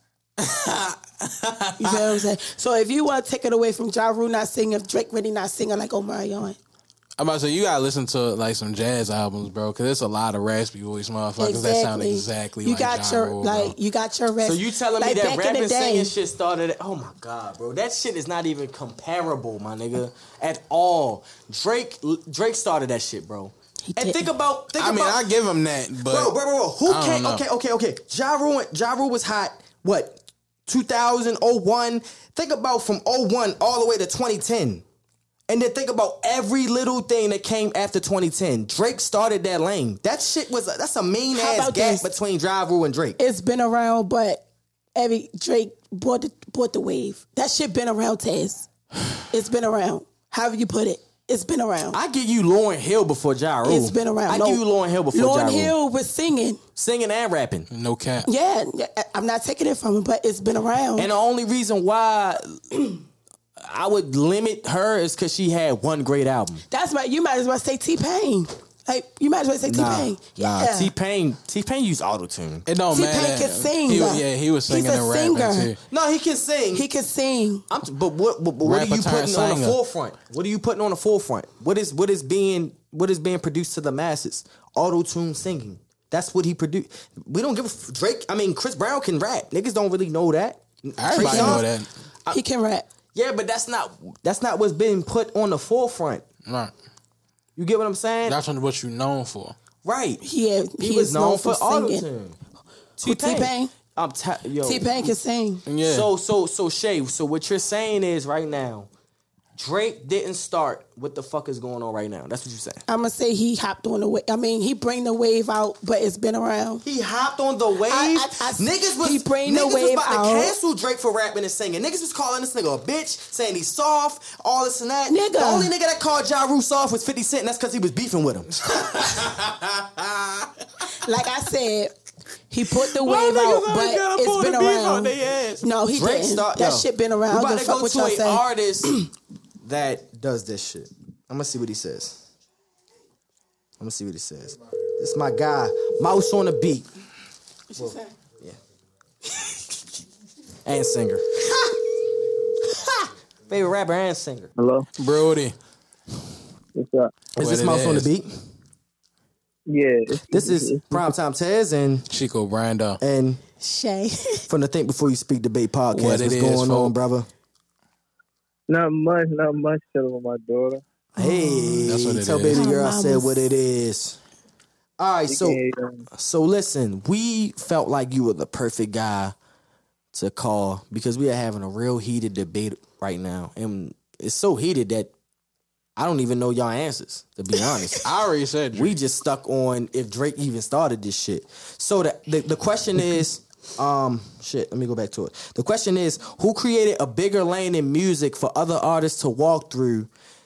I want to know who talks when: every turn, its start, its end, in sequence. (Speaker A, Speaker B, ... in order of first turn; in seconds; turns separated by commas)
Speaker A: 0.4-2.1, Speaker B: 1.8-6.6, Speaker A: 7.2-13.8, Speaker B: 11.4-16.1, Speaker C: 14.4-25.2, Speaker B: 23.9-24.3, Speaker A: 24.8-27.4, Speaker C: 26.1-34.9, Speaker C: 35.5-43.2, Speaker B: 41.4-42.1, Speaker B: 43.2-44.4, Speaker B: 45.0-48.7, Speaker B: 49.3-52.0, Speaker C: 51.9-55.7, Speaker B: 53.6-54.6, Speaker B: 55.1-56.6, Speaker C: 56.8-57.7, Speaker A: 57.7-58.3, Speaker B: 58.3-61.1, Speaker C: 61.0-62.9, Speaker C: 63.6-66.6, Speaker B: 66.7-70.9, Speaker C: 69.7-72.7, Speaker A: 72.7-75.8, Speaker B: 72.9-75.7, Speaker C: 75.9-76.8, Speaker B: 76.7-77.7, Speaker C: 77.7-91.6, Speaker A: 78.6-79.8, Speaker A: 91.0-91.9, Speaker B: 91.2-91.6, Speaker B: 92.3-92.9, Speaker C: 93.1-96.2, Speaker A: 96.5-96.7, Speaker C: 97.6-98.4, Speaker A: 98.3-99.6, Speaker C: 99.8-100.2, Speaker B: 100.2-102.0, Speaker C: 100.8-102.4, Speaker C: 103.0-105.1, Speaker B: 103.0-103.7, Speaker B: 104.6-105.7, Speaker A: 105.7-106.1, Speaker C: 105.8-108.9, Speaker C: 109.6-112.8, Speaker B: 112.9-116.8, Speaker C: 116.8-128.6, Speaker B: 117.9-120.5, Speaker B: 125.1-125.7, Speaker A: 128.6-130.5, Speaker B: 131.0-131.9, Speaker B: 132.5-139.0, Speaker C: 133.1-139.0, Speaker C: 139.6-142.2, Speaker C: 143.8-146.9, Speaker B: 147.7-148.1, Speaker C: 147.8-148.6, Speaker C: 150.7-151.6, Speaker C: 152.7-154.5, Speaker D: 154.6-154.9, Speaker A: 155.0-155.6, Speaker D: 156.8-157.1, Speaker C: 157.4-158.3, Speaker A: 157.4-158.1, Speaker D: 159.7-161.1, Speaker C: 160.3-162.1, Speaker A: 162.1-163.0, Speaker C: 163.0-163.4, Speaker B: 163.6-164.4, Speaker C: 164.5-167.3, Speaker A: 165.9-166.9, Speaker D: 168.7-170.8, Speaker C: 171.2-174.2, Speaker B: 171.2-171.9, Speaker A: 171.8-172.7, Speaker B: 172.5-173.5, Speaker C: 175.0-175.6, Speaker D: 175.3-176.1, Speaker C: 176.1-179.3, Speaker C: 180.1-185.1, Speaker C: 186.0-188.1, Speaker A: 188.0-189.0, Speaker C: 188.7-200.1